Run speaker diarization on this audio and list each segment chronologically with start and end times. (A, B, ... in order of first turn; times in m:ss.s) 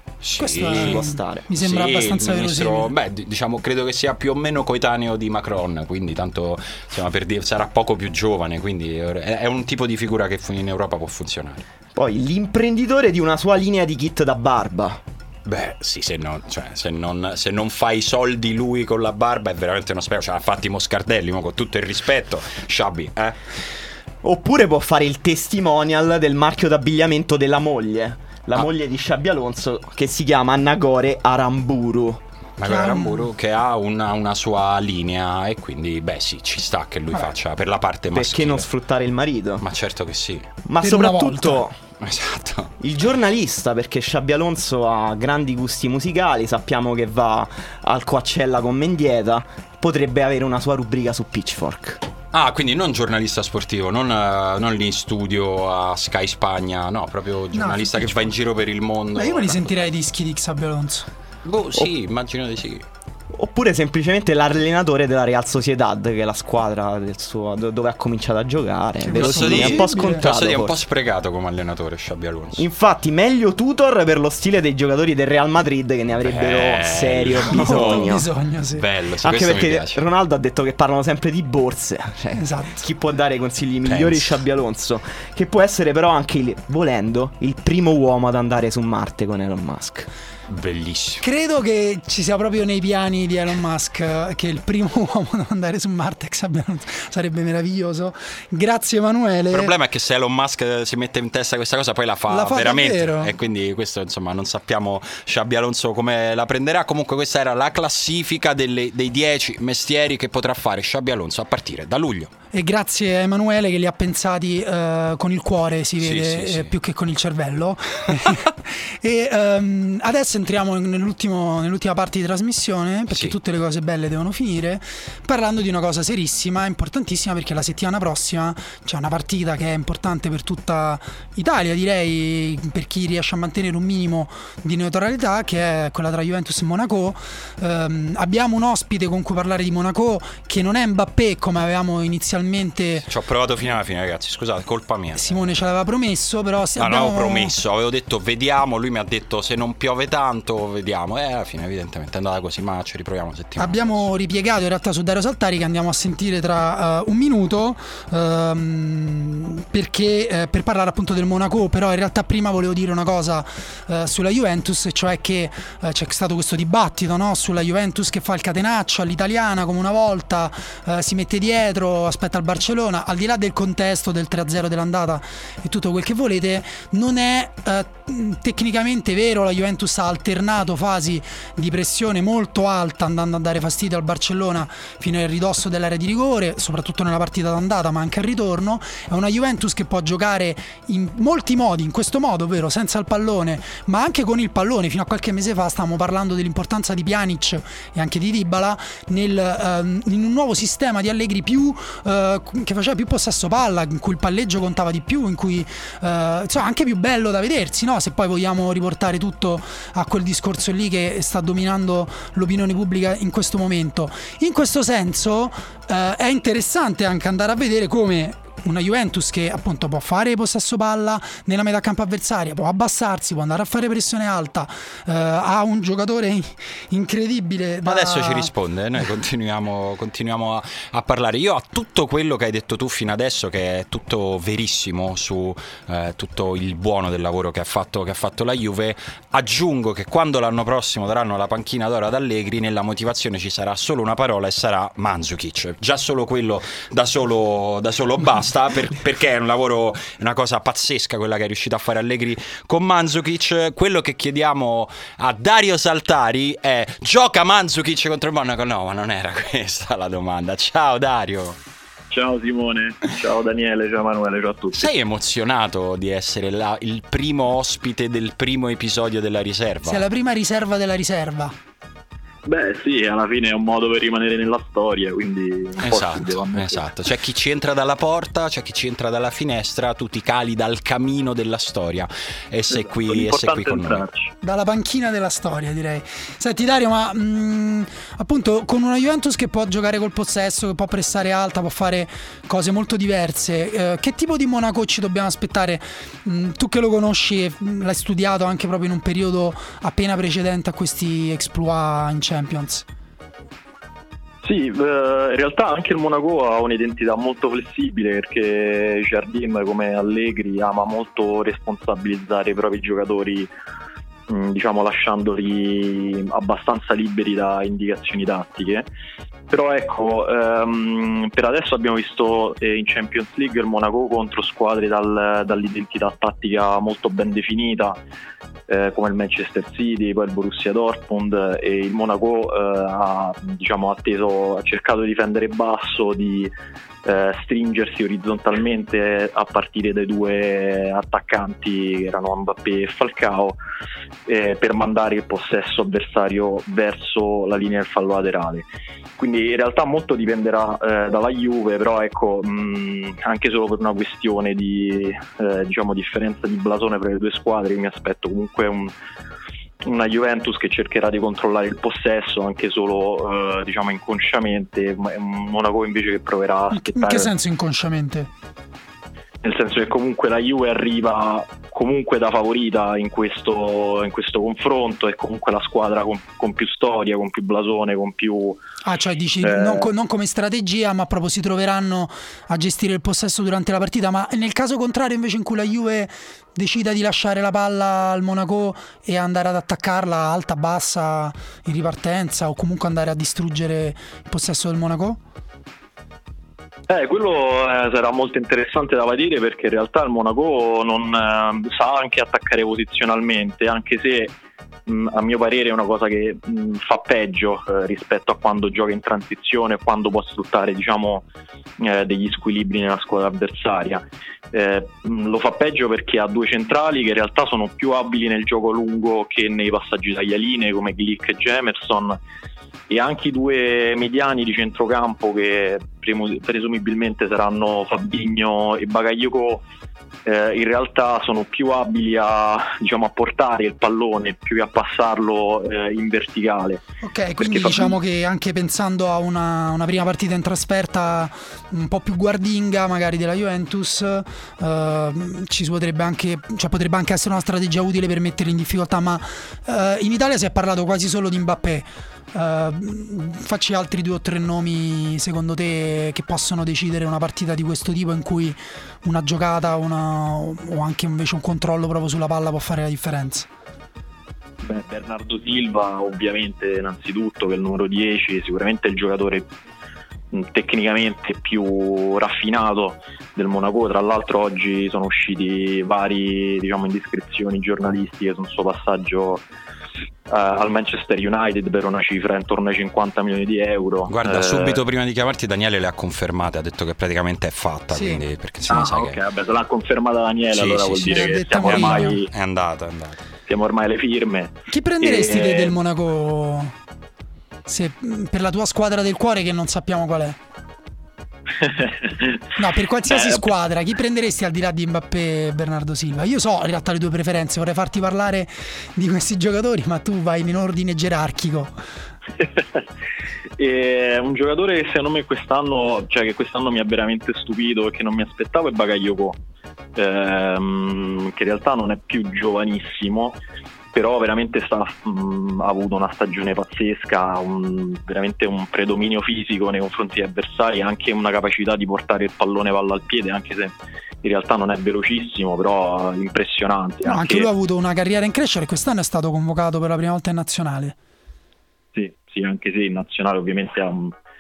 0:00.2-0:01.0 A
0:00.4-0:02.9 B
0:00.7-0:01.5 C
0:01.6-0:11.6 A
0:12.0-0:15.0 C
0:15.5-0:23.5 A
0:24.2-0:32.2 C
0:32.6-0:38.7 A
0:32.6-0:33.3 B
0:38.1-0:39.6 C
0:39.6-0:40.5 A
0:40.7-0:41.8 C
0:40.8-0:41.6 B
0:42.0-0:42.7 A
0:42.8-0:52.0 C
0:52.3-0:59.7 A
0:57.5-0:58.3 B
0:59.2-1:01.1 B
1:01.4-1:02.8 A
1:03.3-1:10.8 C
1:09.0-1:10.2 B
1:09.1-1:12.6 A
1:12.6-1:18.2 C
1:16.2-1:18.2 A
1:17.5-1:18.8 B
1:18.7-1:20.0 A
1:19.2-1:30.1 C
1:22.4-1:22.8 B
1:23.8-1:24.4 A
1:30.5-1:31.2 A
1:31.2-1:39.7 B
1:39.5-1:52.3 A
1:42.3-1:43.3 B
1:52.5-2:23.1 B
1:56.0-1:56.7 A
2:03.1-2:03.4 A
2:23.1-2:25.4 A
2:25.2-2:27.6 B
2:26.8-2:34.1 A
2:33.6-3:48.5 B
3:47.8-4:21.6 A
4:22.1-4:24.9 D
4:24.7-4:30.0 A
4:29.9-4:31.6 B
4:32.5-4:36.9 D
4:35.8-4:44.0 A
4:42.7-4:44.3 D
4:44.4-5:02.9 B
5:04.4-5:13.5 D
5:14.3-5:18.9 D
5:19.5-5:28.0 D
5:28.7-5:36.5 D
5:37.0-5:43.6 D
5:44.3-5:48.6 D
5:49.2-5:58.9 D
5:59.8-6:07.3 D
6:06.7-6:08.3 B
6:09.4-6:18.6 D
6:18.8-6:35.2 B
6:19.4-6:19.9 D
6:36.9-6:44.4 D
6:44.9-6:51.3 D
6:51.8-7:02.2 D
7:02.9-7:09.6 D
7:10.2-7:16.8 D
7:17.0-7:43.5 B
7:17.4-7:18.0 D
7:44.6-7:49.5 D
7:50.3-7:59.4 D
8:00.3-8:04.8 D
8:04.1-8:09.2 A
8:07.9-8:08.2 B
8:08.7-8:12.3 D
8:10.5-8:13.2 A
8:11.0-8:12.2 B
8:13.5-8:15.8 D
8:14.7-8:16.7 B
8:17.7-8:20.4 B
8:21.6-8:22.4 D
8:22.6-8:31.7 B
8:23.1-8:23.5 D
8:32.4-8:32.8 D
8:33.6-8:39.4 D
8:40.0-8:43.4 D
8:43.9-8:57.5 D
8:57.0-9:01.0 B
9:01.9-9:04.1 D